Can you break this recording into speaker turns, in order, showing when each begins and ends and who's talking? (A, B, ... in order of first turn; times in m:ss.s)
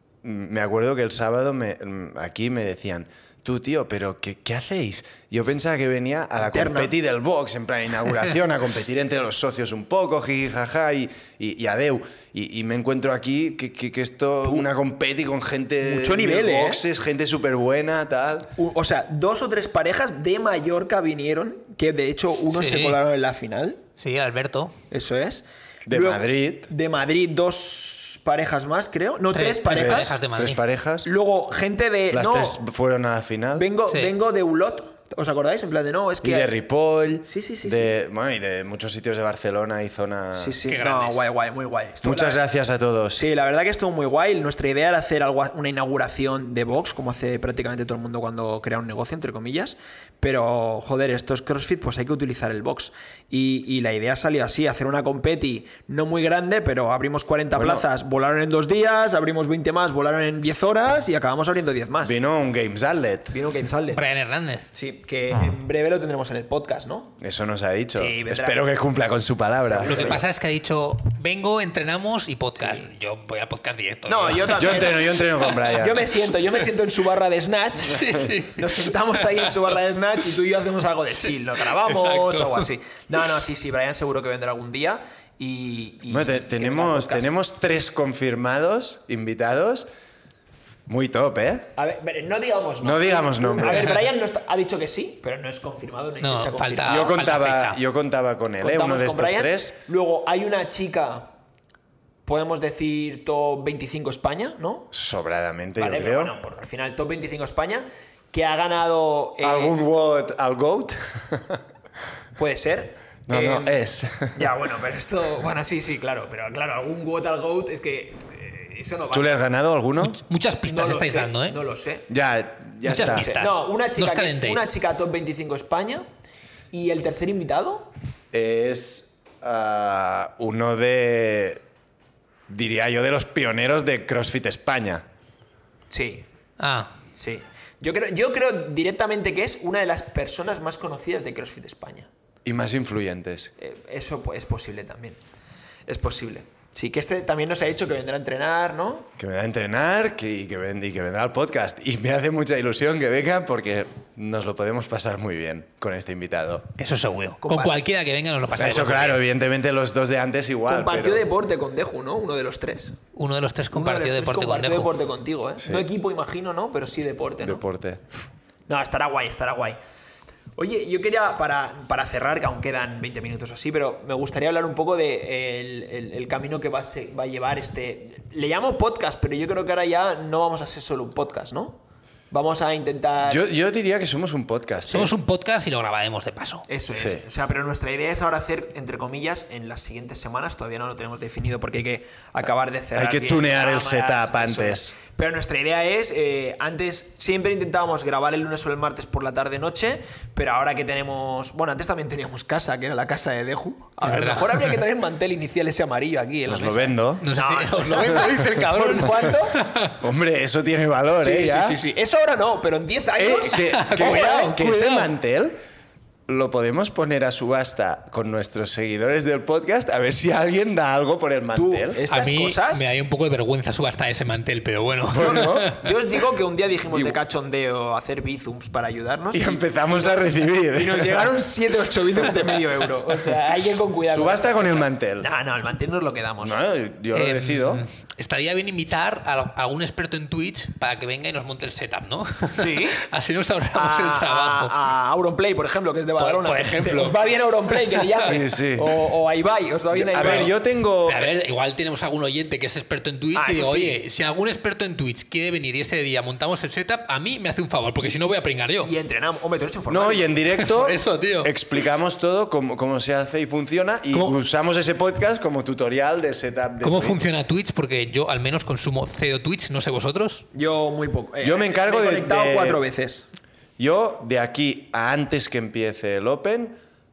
0:00.2-0:18.5 A
0:06.4-0:06.9 B
0:15.8-0:16.8 B
0:18.6-0:23.8 B
0:22.5-0:23.0 C
0:24.0-0:24.8 C
0:24.9-0:30.2 B
0:25.9-0:26.7 A
0:29.3-0:30.6 C
0:29.7-0:31.1 A
0:31.0-0:32.6 B
0:32.1-0:33.7 A
0:33.6-0:36.5 B
0:36.2-0:40.6 A
0:37.2-0:37.9 B
0:40.3-0:42.4 B
0:40.6-0:41.2 C
0:42.0-0:43.2 A
0:43.1-1:02.2 B
0:57.5-0:57.8 A
1:02.0-1:03.3 A
1:03.3-1:04.0 B
1:03.9-1:04.7 C
1:04.7-1:07.1 B
1:07.2-1:10.2 A
1:07.9-1:08.6 B
1:09.6-1:10.2 B
1:09.8-1:14.9 C
1:12.6-1:12.9 B
1:14.0-1:27.3 B
1:14.6-1:16.1 A
1:17.8-1:19.5 C
1:21.6-1:22.7 C
1:26.1-1:29.9 A
1:30.9-1:31.7 A
1:31.8-1:37.1 B
1:32.8-1:34.0 A
1:36.2-1:37.8 C
1:36.8-1:39.7 A
1:38.6-1:41.3 B
1:42.2-1:44.9 B
1:44.9-1:46.3 A
1:45.8-1:49.8 B
1:49.4-1:51.6 A
1:52.4-1:53.8 B
1:53.3-1:54.5 A
1:54.3-1:59.4 B
1:59.1-2:00.2 A
2:00.0-2:01.6 C
2:00.7-2:02.1 B
2:02.1-2:03.3 A
2:02.8-2:04.7 C
2:02.9-2:06.0 B
2:06.7-2:07.9 B
2:08.3-2:11.6 A
2:12.5-2:15.0 A
2:15.9-2:16.3 B
2:16.6-2:17.0 C
2:17.1-2:22.1 B
2:22.4-2:23.5 A
2:23.6-2:25.2 B
2:25.9-2:29.1 B
2:29.2-2:36.7 A
2:36.8-2:39.2 C
2:37.4-2:37.8 B
2:38.6-2:41.3 A
2:40.7-2:43.0 B
2:43.1-2:44.9 C
2:43.7-2:47.6 B
2:45.6-2:45.8 A
2:47.4-2:48.0 A
2:48.7-2:49.8 B
2:50.6-3:01.8 B
3:02.3-3:03.4 B
3:03.2-3:05.1 A
3:04.9-3:06.6 C
3:06.7-3:29.6 B
3:06.9-3:07.2 A
3:12.9-3:14.9 A
3:24.0-3:24.8 C
3:26.4-3:27.2 A
3:27.2-3:30.0 C
3:30.0-3:31.8 A
3:31.2-3:34.7 B
3:33.2-3:35.5 A
3:33.6-3:35.0 C
3:36.3-3:42.0 A
3:41.5-3:42.9 B
3:42.1-3:45.9 C
3:45.1-3:45.7 A
3:45.1-3:50.1 B
3:46.9-3:47.2 A
3:49.3-3:51.3 A
3:50.6-3:56.6 B
3:54.1-3:55.3 A
3:56.4-3:57.8 A
3:57.1-4:04.7 C
4:02.6-4:03.0 B
4:03.7-4:10.5 B
4:06.2-4:07.2 C
4:07.7-4:08.2 C
4:08.2-4:09.0 A
4:09.9-4:11.3 A
4:11.0-4:18.9 C
4:13.3-4:14.0 B
4:18.8-4:20.4 B
4:19.9-4:27.2 A
4:20.6-4:21.5 C
4:26.8-4:30.4 C
4:30.5-4:33.2 B
4:31.4-4:32.8 A
4:33.8-4:36.8 A